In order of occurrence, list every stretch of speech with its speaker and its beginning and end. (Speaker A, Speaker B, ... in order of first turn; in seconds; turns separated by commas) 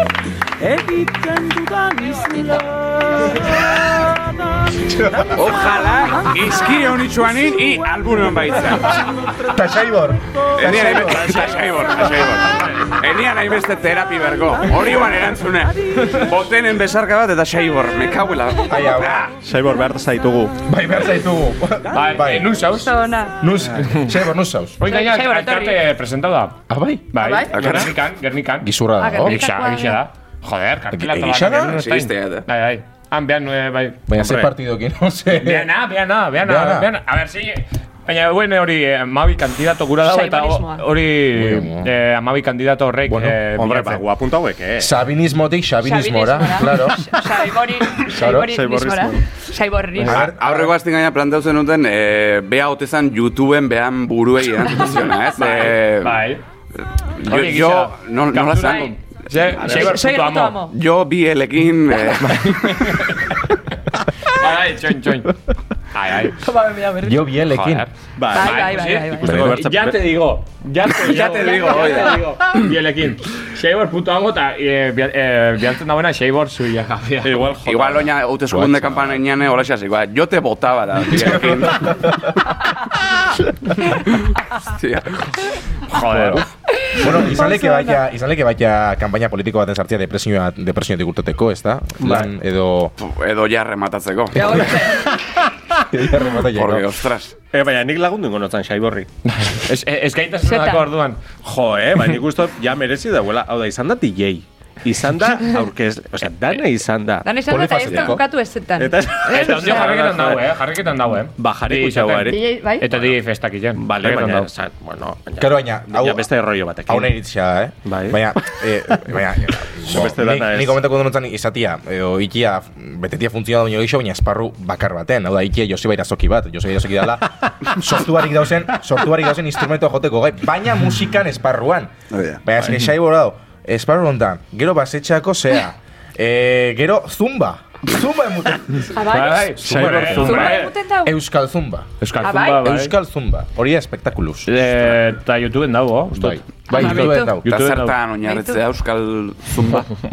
Speaker A: 0.6-9.6, Speaker B: 4.8-5.4, Speaker C: 5.3-9.2, Speaker B: 9.4-11.5, Speaker A: 10.3-11.8, Speaker C: 10.5-19.3, Speaker A: 14.6-15.3, Speaker A: 15.9-16.1, Speaker B: 18.6-19.3, Speaker D: 19.4-20.6, Speaker B: 20.6-22.6, Speaker E: 21.9-22.9, Speaker F: 22.7-23.4, Speaker B: 23.4-24.8, Speaker E: 24.8-26.6, Speaker F: 24.8-25.8, Speaker B: 26.7-27.1, Speaker E: 27.1-34.1, Speaker F: 27.1-27.5, Speaker C: 27.5-27.9, Speaker D: 27.5-27.9, Speaker B: 28.6-29.4, Speaker F: 29.0-30.0, Speaker B: 30.9-31.8, Speaker C: 31.7-32.5, Speaker B: 34.1-35.7, Speaker D: 34.2-34.5, Speaker E: 35.3-44.0, Speaker B: 36.4-36.9, Speaker F: 40.0-40.9, Speaker B: 41.3-41.9, Speaker B: 43.1-43.4, Speaker D: 43.5-44.9, Speaker B: 44.8-47.2, Speaker F: 45.8-50.2, Speaker B: 48.0-48.5, Speaker D: 48.2-49.2, Speaker B: 50.0-50.7, Speaker D: 50.0-50.3, Speaker C: 50.1-56.2, Speaker E: 55.4-56.4, Speaker C: 57.2-59.0, Speaker E: 57.2-60.6, Speaker F: 58.6-58.9, Speaker F: 59.6-60.7, Speaker C: 60.7-63.0, Speaker E: 62.2-63.3, Speaker E: 64.2-65.3, Speaker E: 65.9-66.5, Speaker F: 66.4-67.2, Speaker B: 67.0-67.8, Speaker E: 67.4-77.5, Speaker D: 68.2-70.2, Speaker F: 68.3-69.5, Speaker B: 69.3-69.6, Speaker C: 71.0-72.7, Speaker F: 71.0-72.3, Speaker D: 77.2-78.1, Speaker C: 77.6-82.2, Speaker B: 78.5-79.2, Speaker B: 81.1-82.2, Speaker C: 84.1-85.3, Speaker E: 85.9-86.5, Speaker B: 86.0-86.4, Speaker F: 86.8-88.0, Speaker B: 87.0-92.9, Speaker D: 92.0-92.3, Speaker C: 93.0-94.6, Speaker B: 94.3-94.9, Speaker F: 94.3-95.1, Speaker B: 95.8-96.9, Speaker C: 96.5-97.3, Speaker D: 97.5-99.1, Speaker E: 99.3-101.2, Speaker F: 100.4-100.9, Speaker D: 101.4-107.3, Speaker F: 107.2-109.9, Speaker B: 107.5-108.2, Speaker D: 108.8-110.6, Speaker E: 109.3-114.5, Speaker D: 111.4-113.1, Speaker F: 112.2-112.9, Speaker D: 113.8-117.1, Speaker B: 115.4-116.3, Speaker B: 116.8-131.9, Speaker D: 117.8-118.3, Speaker D: 119.8-120.8, Speaker C: 132.1-132.4, Speaker B: 132.4-144.8, Speaker D: 132.6-132.9, Speaker F: 138.9-139.5, Speaker E: 139.1-140.7, Speaker D: 139.6-140.5, Speaker F: 140.2-141.1, Speaker E: 142.0-142.9, Speaker F: 142.2-142.7, Speaker E: 144.5-148.0, Speaker B: 146.1-147.5, Speaker F: 146.7-147.4, Speaker C: 147.4-149.9, Speaker F: 148.2-148.6